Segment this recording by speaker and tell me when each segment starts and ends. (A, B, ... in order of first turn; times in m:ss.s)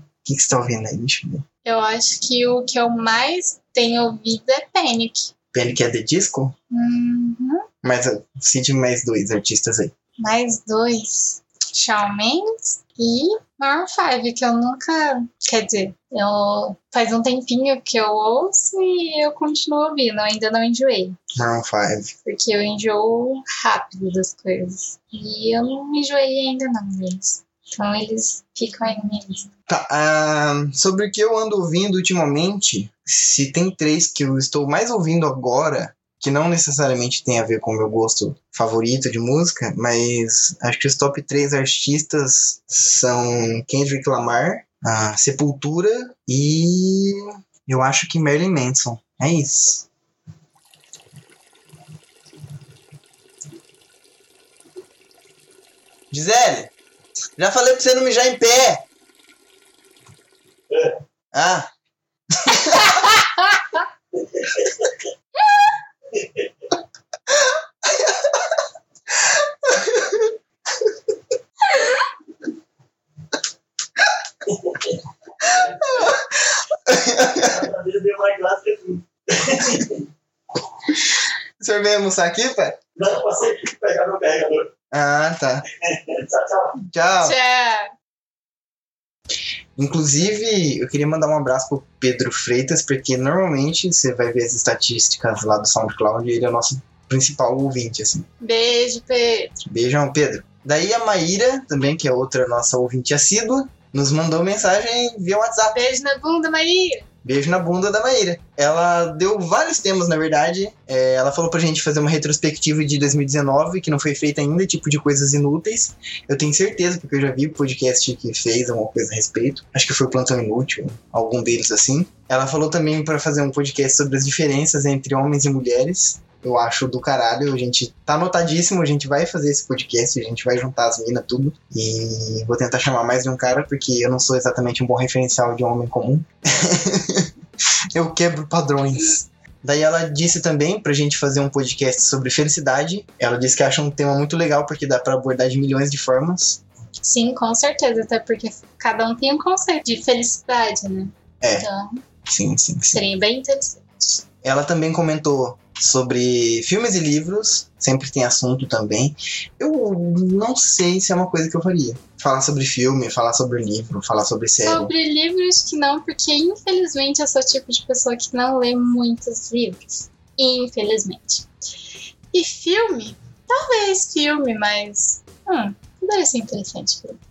0:00.2-0:01.4 A
0:01.6-0:05.3 B
0:05.5-0:06.5 A
0:06.7-0:07.6 B
0:07.8-0:09.9 A
0:10.2-0:21.2 B
0:21.3-0:22.1 A
0:22.2-0:29.5 B
0:29.7-0:49.8 A
0:56.1-0:56.7 A
0:57.4-0:58.8 A
1:01.3-1:01.7 A
1:02.3-1:03.1 A
1:02.9-1:03.2 B
1:04.4-1:04.9 C
1:09.6-1:10.3 A
1:15.4-1:16.2 C
1:15.4-1:16.3 A
1:16.8-1:17.6 A
1:17.3-1:20.0 C
1:21.6-1:22.8 A
1:23.0-1:24.7 C
1:24.9-1:25.6 A
1:25.8-1:26.7 C
1:26.9-1:27.4 A
1:27.2-1:27.9 B
1:29.8-1:38.3 A
1:38.4-1:39.6 B
1:39.7-1:45.8 A
1:45.7-1:47.0 B
1:47.2-2:17.3 A
2:17.9-2:26.6 A
2:27.0-2:32.0 B
2:31.4-2:31.6 A
2:32.2-2:33.0 A
2:32.9-2:34.2 B
2:34.4-2:44.9 A
2:44.6-2:51.5 B
2:52.3-2:57.2 B